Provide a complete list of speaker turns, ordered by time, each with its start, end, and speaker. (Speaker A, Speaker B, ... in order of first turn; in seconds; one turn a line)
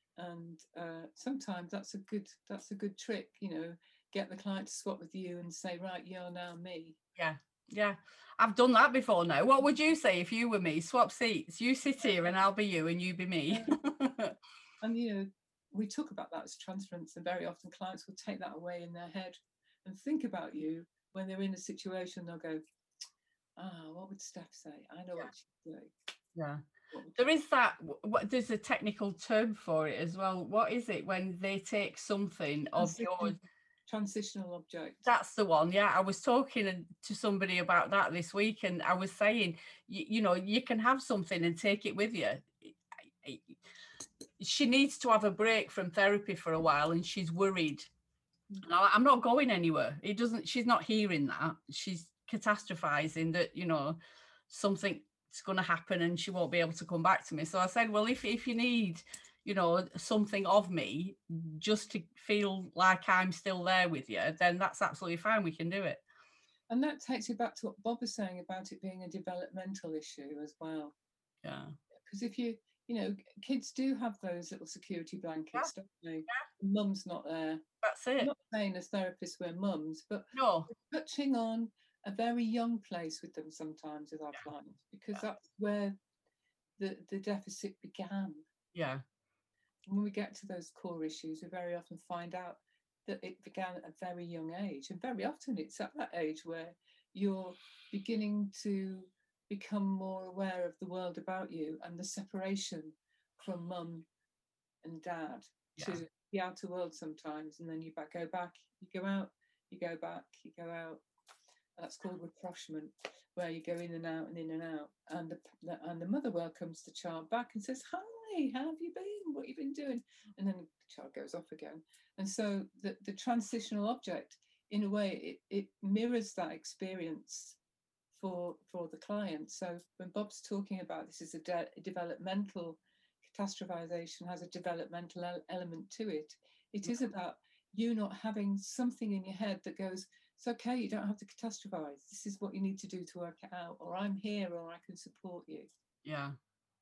Speaker A: 0.2-7.0
Speaker B: 7.2-14.3
Speaker A: 13.5-13.9
Speaker A: 14.8-22.6
Speaker A: 23.6-25.9
Speaker B: 26.3-26.6
Speaker A: 26.9-27.2
Speaker B: 27.1-33.4
Speaker A: 32.8-33.4
Speaker A: 33.9-35.0
Speaker B: 35.0-43.6
Speaker B: 44.4-47.9
Speaker B: 48.6-54.0
Speaker B: 54.5-66.0
Speaker A: 66.7-70.9
Speaker B: 71.4-71.7
Speaker A: 72.1-77.6
Speaker B: 77.8-78.3
Speaker A: 78.2-86.0
Speaker B: 80.3-80.7
Speaker A: 86.8-88.4
Speaker B: 88.7-89.0
Speaker A: 89.9-104.0
Speaker A: 104.8-111.0
Speaker A: 111.8-127.6
Speaker A: 128.1-145.7
Speaker B: 146.0-146.4